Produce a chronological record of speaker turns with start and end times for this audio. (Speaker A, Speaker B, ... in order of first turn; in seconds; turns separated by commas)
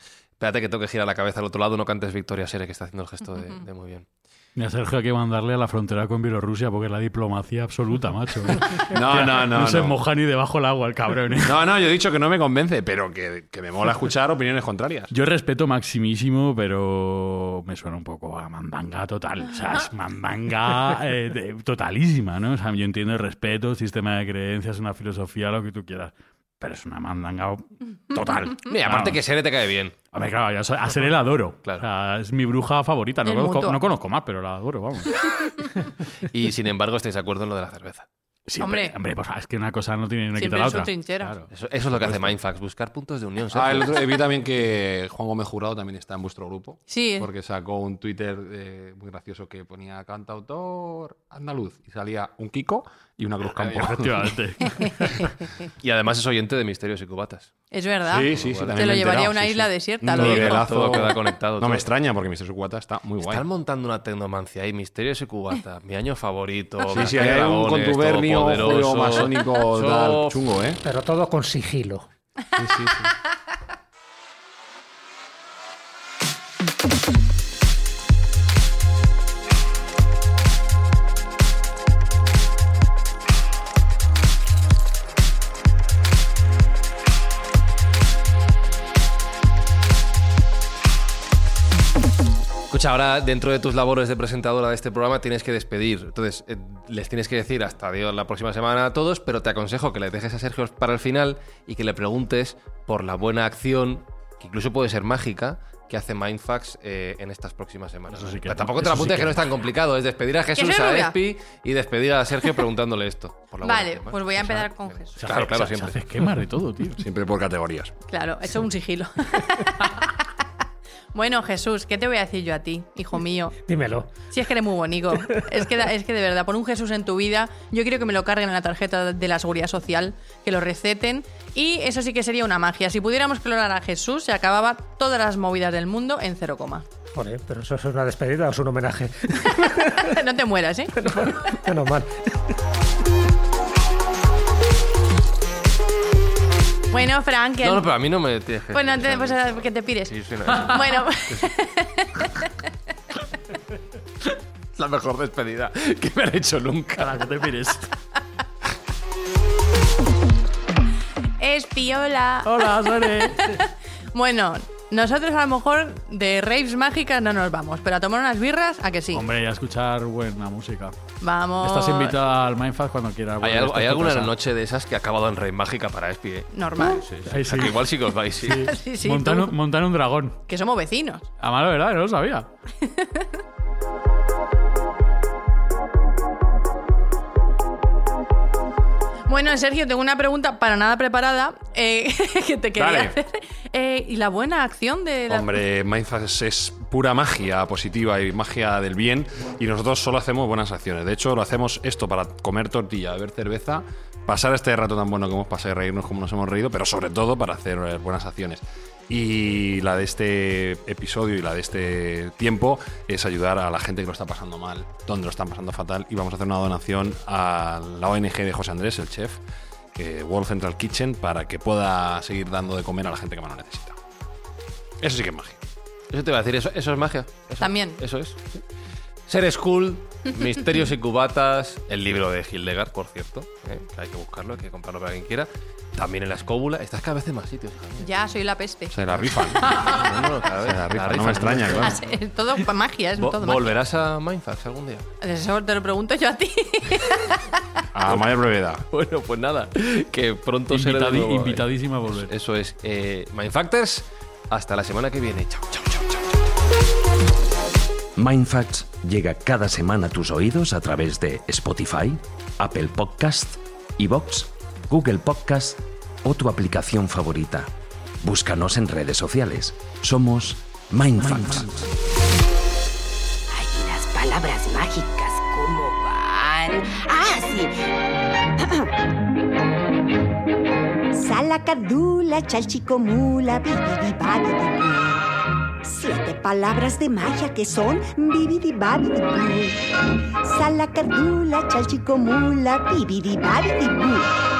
Speaker A: 0.4-4.0, Speaker B: 4.5-11.6, Speaker C: 8.9-9.9, Speaker C: 11.4-15.1, Speaker B: 15.1-29.2, Speaker A: 28.6-29.9, Speaker B: 30.1-35.1, Speaker D: 33.2-33.8, Speaker A: 36.2-38.1, Speaker B: 38.5-41.5, Speaker D: 38.6-38.9, Speaker D: 40.4-41.3, Speaker A: 41.5-43.9, Speaker C: 41.9-42.4, Speaker C: 43.5-55.2, Speaker D: 46.9-47.3, Speaker B: 53.7-55.2, Speaker D: 54.7-55.2, Speaker A: 55.8-57.5, Speaker D: 57.7-60.7, Speaker C: 58.1-63.4, Speaker A: 58.3-58.8, Speaker A: 60.1-61.9, Speaker A: 63.2-70.4, Speaker C: 66.9-70.8, Speaker E: 70.8-72.0, Speaker C: 72.5-73.1, Speaker A: 92.7-116.0, Speaker B: 108.1-109.4, Speaker D: 110.5-111.1, Speaker D: 113.6-115.2, Speaker B: 115.2-117.0, Speaker C: 117.0-117.9, Speaker D: 118.1-120.3, Speaker D: 121.1-123.5, Speaker E: 123.6-124.2, Speaker D: 124.3-136.8, Speaker E: 125.1-125.5, Speaker E: 137.1-140.2, Speaker D: 139.4-141.1, Speaker E: 140.9-142.5, Speaker D: 146.9-147.9, Speaker A: 147.6-151.4, Speaker D: 148.7-152.5, Speaker A: 154.8-157.2, Speaker B: 157.0-157.9, Speaker D: 161.4-169.2, Speaker B: 162.4-163.6, Speaker B: 169.1-171.0, Speaker D: 171.2-172.1, Speaker B: 171.6-174.3, Speaker A: 173.4-178.7, Speaker D: 176.5-177.0, Speaker B: 177.2-180.4, Speaker D: 178.5-179.5, Speaker D: 180.5-181.2, Speaker B: 181.4-182.5, Speaker D: 182.8-183.4, Speaker D: 189.3-195.6, Speaker C: 192.8-193.2, Speaker C: 195.3-219.4, Speaker C: 219.9-224.0, Speaker C: 225.0-225.6, Speaker A: 226.1-228.5, Speaker D: 227.6-228.0, Speaker A: 229.3-238.1, Speaker D: 238.0-239.0, Speaker C: 238.9-239.9, Speaker A: 239.6-241.9, Speaker D: 239.6-240.0, Speaker C: 240.6-242.0, Speaker D: 241.8-243.7, Speaker A: 243.2-245.1, Speaker D: 245.2-247.6, Speaker C: 247.9-248.8, Speaker A: 248.9-256.2, Speaker B: 250.7-252.3, Speaker F: 258.1-267.7, Speaker F: 268.2-271.8, Speaker G: 273.5-277.8, Speaker G: 278.6-278.9, Speaker G: 281.1-285.3, Speaker G: 285.8-294.3